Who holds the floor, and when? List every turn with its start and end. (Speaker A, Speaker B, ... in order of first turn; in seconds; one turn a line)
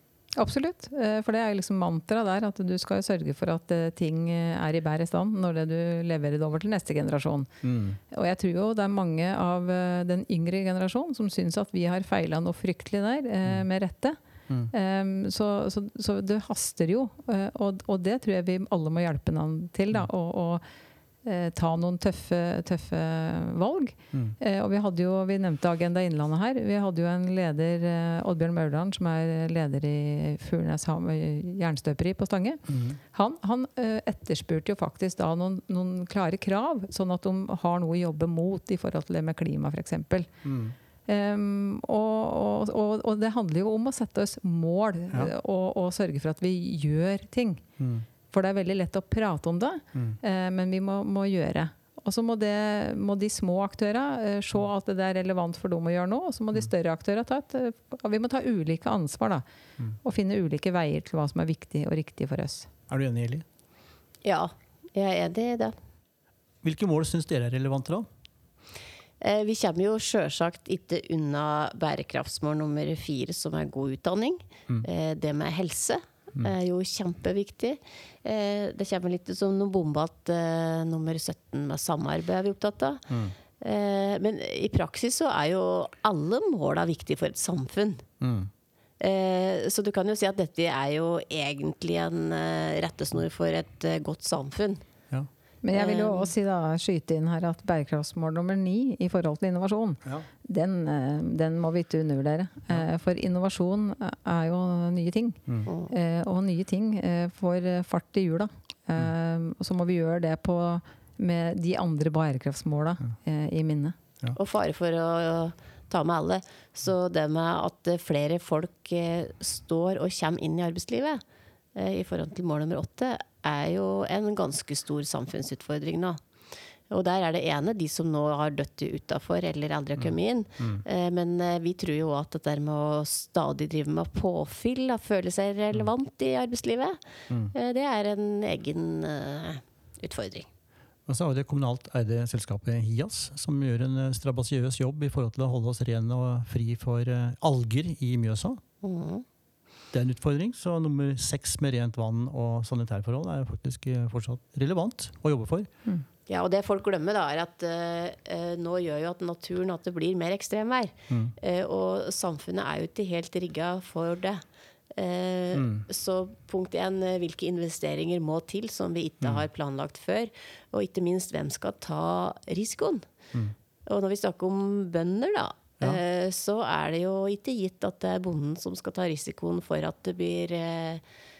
Speaker A: 0.4-7.5
Speaker B: 7.6-8.0
Speaker A: 8.1-14.2
Speaker A: 14.7-20.6
Speaker A: 21.2-40.3
Speaker B: 32.7-33.0
Speaker B: 40.5-40.8
Speaker A: 41.1-47.6
Speaker B: 47.8-48.1
Speaker A: 48.3-59.4
Speaker A: 60.0-62.7
Speaker B: 62.9-63.4
Speaker C: 64.2-65.7
Speaker B: 66.6-68.1
Speaker C: 69.2-83.0
Speaker B: 83.1-83.3
Speaker C: 83.6-88.0
Speaker B: 88.2-88.5
Speaker C: 89.0-94.8
Speaker A: 95.6-114.0
Speaker C: 95.7-96.3
Speaker C: 105.7-105.9
Speaker C: 114.4-121.2
Speaker C: 121.8-126.2
Speaker C: 126.9-137.0
Speaker B: 130.0-130.8
Speaker C: 137.5-140.5
Speaker B: 141.1-148.6
Speaker C: 148.8-149.2
Speaker B: 149.9-155.7
Speaker C: 156.3-164.4
Speaker B: 161.1-161.3
Speaker C: 164.9-173.0
Speaker B: 165.5-165.9
Speaker C: 173.9-181.0